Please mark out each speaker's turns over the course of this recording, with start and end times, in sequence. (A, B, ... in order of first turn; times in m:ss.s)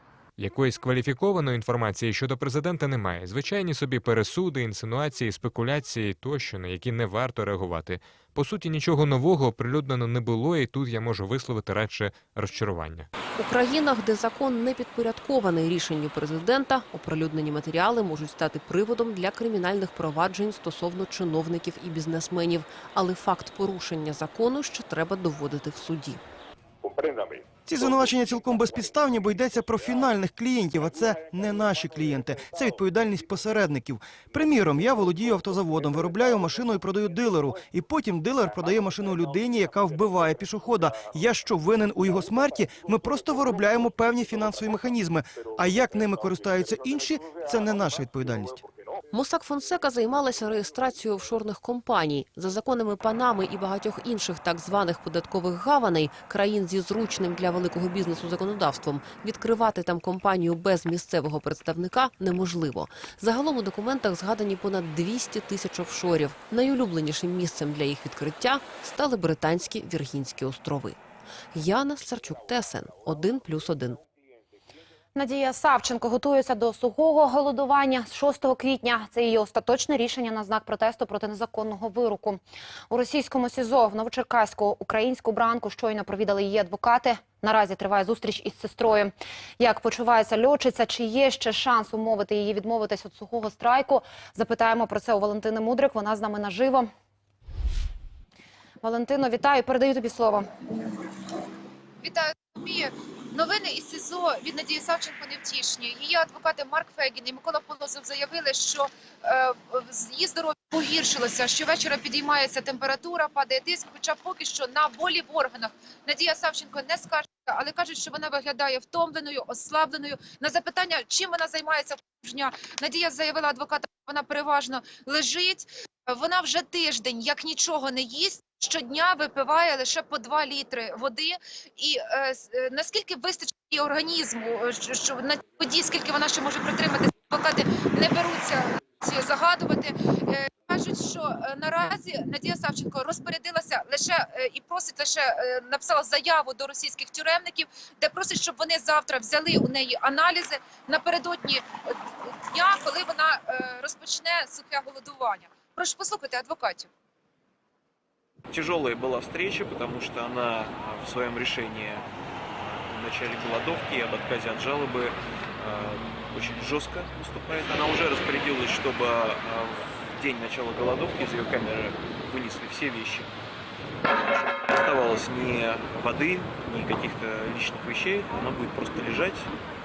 0:00.4-0:13.1 A
0:13.4-0:26.2 B
0:27.7-0:48.6 C
0:49.1-1:11.0 B
1:11.5-1:14.0 B
1:15.2-1:36.9 D
1:38.8-1:40.5 D
1:42.0-2:36.9 E
2:38.5-2:53.3 F
2:54.1-2:59.5 F